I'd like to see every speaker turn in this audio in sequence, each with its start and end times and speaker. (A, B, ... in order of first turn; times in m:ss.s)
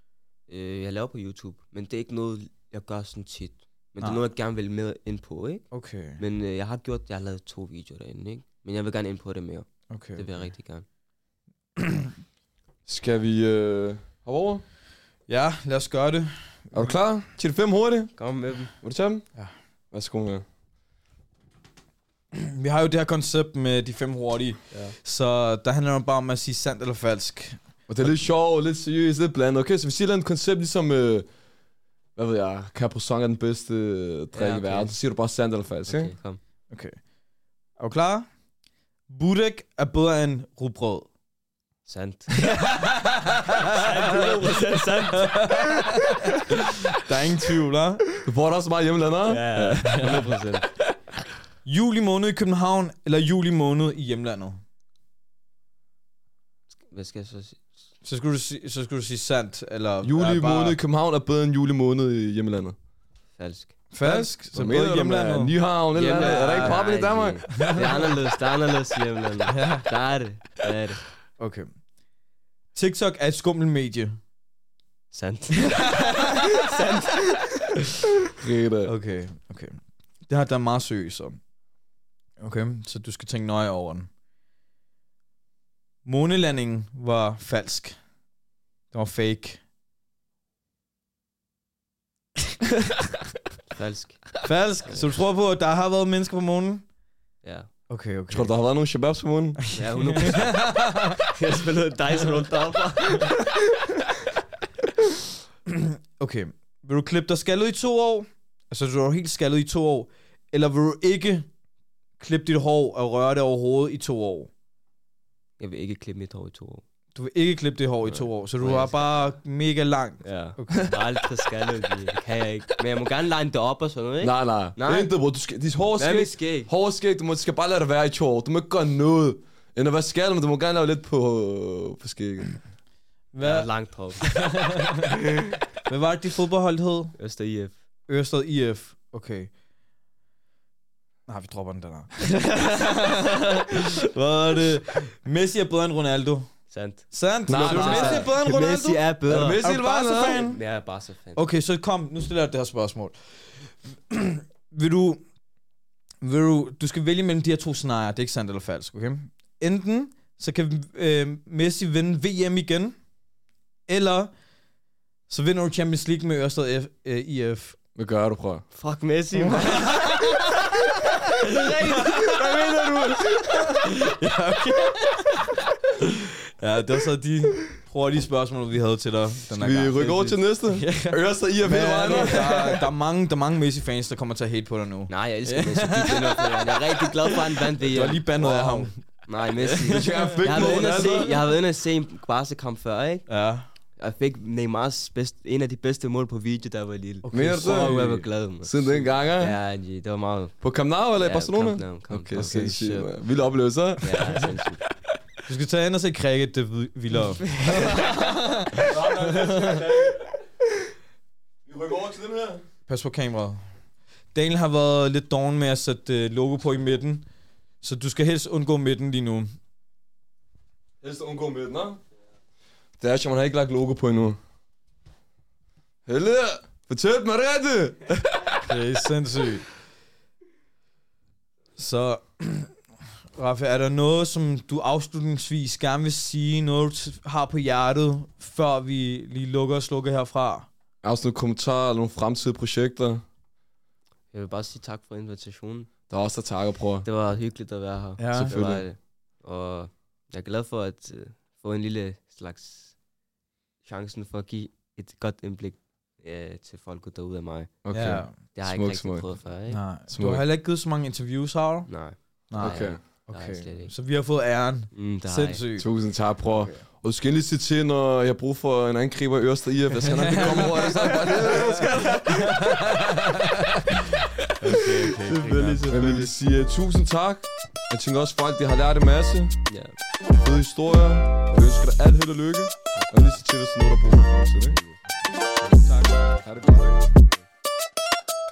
0:00.5-0:10.8 A
0:05.7-0:06.2 B
0:09.9-0:10.5 B
0:11.8-0:12.1 B
0:12.8-0:14.6 C
0:15.3-0:16.9 B
0:16.7-0:18.1 C
0:18.2-0:18.7 A
0:18.7-0:19.3 C
0:19.9-0:20.4 C
0:22.3-0:27.6 B
0:24.7-0:25.0 A
0:27.9-0:31.3 C
0:32.2-0:36.1 C
0:34.3-0:35.0 A
0:35.8-0:36.4 A
0:36.7-0:37.0 B
0:37.8-0:38.3 B
0:39.1-0:41.1 B
0:41.8-0:42.3 A
0:42.4-0:48.0 B
0:43.7-0:45.9 A
0:48.2-0:50.3 C
0:49.3-0:50.7 A
0:51.6-0:54.6 B
0:56.9-0:57.7 A
0:58.0-1:00.8 B
1:00.0-1:02.8 C
1:03.4-1:03.7 A
1:03.9-1:06.8 B
1:04.0-1:07.8 C
1:05.9-1:11.0 A
1:07.6-1:08.1 B
1:09.5-1:09.9 B
1:11.4-1:11.7 B
1:12.7-1:14.2 B
1:15.1-1:17.7 A
1:18.4-1:18.9 C
1:18.8-1:21.4 B
1:22.4-1:24.1 B
1:26.0-1:28.0 B
1:28.9-1:29.6 B
1:33.7-1:35.0 A
1:34.4-1:36.8 B
1:37.4-1:37.7 A
1:37.9-1:38.5 B
1:38.3-1:39.6 C
1:39.7-1:43.6 A
1:40.2-1:41.2 B
1:45.7-1:51.5 B
1:52.2-1:54.5 B
1:55.6-1:56.8 A
1:57.1-2:00.9 B
1:58.0-1:59.0 A
2:00.2-2:05.1 A
2:04.2-2:12.5 C
2:06.0-2:06.7 A
2:13.3-2:13.7 B
2:13.4-2:14.2 A
2:14.2-2:15.2 B
2:15.9-2:17.1 B
2:17.2-2:17.8 A
2:18.1-2:19.5 B
2:21.3-2:26.5 B
2:26.7-2:29.6 A
2:27.1-2:30.6 B
2:27.4-2:28.4 C
2:29.3-2:30.5 C
2:30.2-2:31.4 A
2:31.3-2:35.2 B
2:36.2-2:43.0 B
2:43.9-2:44.3 B
2:45.3-2:47.8 B
2:47.9-2:48.6 C
2:48.7-2:53.8 A
2:49.3-2:50.7 B
2:51.4-2:52.5 B
2:53.7-3:11.3 B
2:59.5-3:02.6 C
3:02.0-3:02.7 A
3:05.1-3:13.3 A
3:09.9-3:11.4 C
3:13.3-3:13.7 B
3:14.0-3:20.6 A
3:17.2-3:18.2 B
3:17.3-3:19.6 C
3:20.6-3:24.6 C
3:21.2-3:23.1 A
3:24.0-3:24.8 A
3:25.5-3:29.8 B
3:27.4-3:28.4 A
3:28.7-3:30.3 C
3:31.6-3:32.6 C
3:32.9-3:33.6 B
3:34.3-3:37.2 B
3:37.8-3:39.5 B
3:41.0-3:42.0 C
3:43.0-3:44.4 C
3:46.0-3:48.7 C
3:48.6-3:49.7 B
3:51.8-3:52.8 B
3:53.3-4:00.7 B
4:01.0-4:03.2 C
4:04.3-4:05.9 A
4:06.1-4:07.1 C
4:07.0-4:12.9 A
4:08.2-4:08.6 B
4:08.3-4:08.8 C
4:13.8-4:17.7 A
4:17.8-4:19.4 C
4:17.9-4:18.4 B
4:18.5-4:19.8 A
4:19.7-4:21.9 B
4:20.1-4:20.4 C
4:21.9-4:23.9 A
4:22.5-4:25.9 B
4:22.6-4:23.0 C
4:24.9-4:25.6 A
4:25.8-4:32.2 C
4:26.4-4:26.8 B
4:30.1-4:32.6 A
4:30.2-4:34.0 B
4:34.6-4:36.3 A
4:35.3-4:39.6 C
4:39.7-4:39.9 A
4:40.3-4:44.8 C
4:42.9-4:43.4 A
4:44.6-4:45.0 A
4:45.7-4:46.0 A
4:45.8-4:47.0 C
4:47.0-4:47.4 A